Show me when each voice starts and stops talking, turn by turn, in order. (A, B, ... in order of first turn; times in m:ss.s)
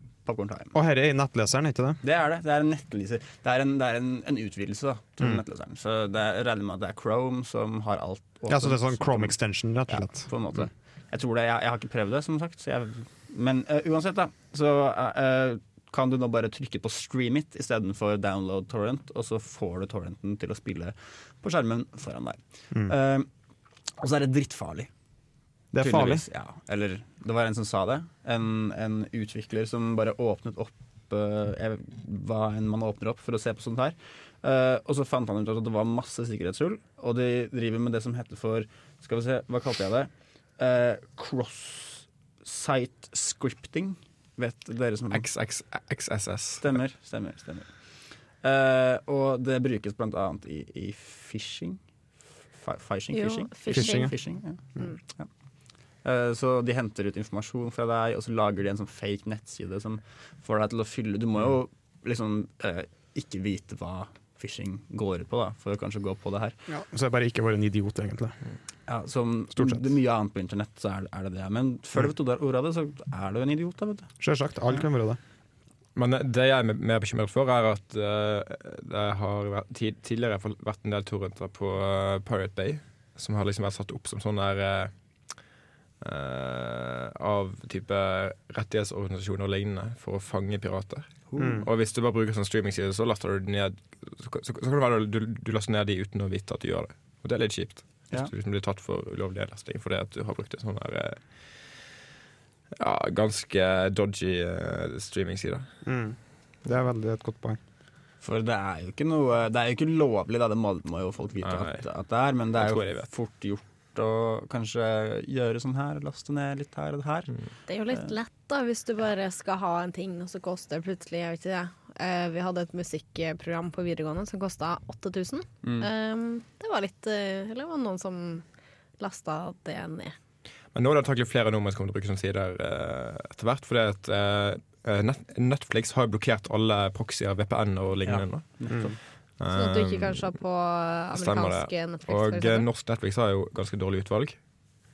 0:00.2-0:00.8 A
0:00.7-0:02.0 B
0:02.0-0:09.4 A
0:08.5-0:10.3 B
0:09.9-0:23.3 A
0:24.0-0:24.9 A
0:25.7-0:26.2 B
0:25.8-0:45.2 A
0:45.1-0:46.8 C
0:46.6-0:47.7 A
0:48.4-0:51.8 A
0:52.6-0:55.3 A
0:53.1-0:54.1 D
0:53.7-0:54.1 B
0:56.0-1:06.6 A
1:06.7-1:08.4 B
1:08.9-1:14.1 A
1:09.6-1:09.8 B
1:14.2-1:15.2 B
1:16.0-1:24.9 C
1:26.0-1:41.2 C
1:31.3-1:31.6 A
1:31.4-1:31.7 B
1:42.8-1:45.6 C
1:45.8-1:47.6 B
1:48.2-1:57.3 A
1:51.4-1:51.8 C
1:52.6-1:53.1 C
1:57.7-2:08.4 D
2:05.6-2:05.9 A
2:09.0-2:10.1 D
2:10.7-2:18.6 C
2:18.0-2:19.0 A
2:19.4-2:20.3 C
2:19.5-2:22.7 D
2:21.2-2:24.4 C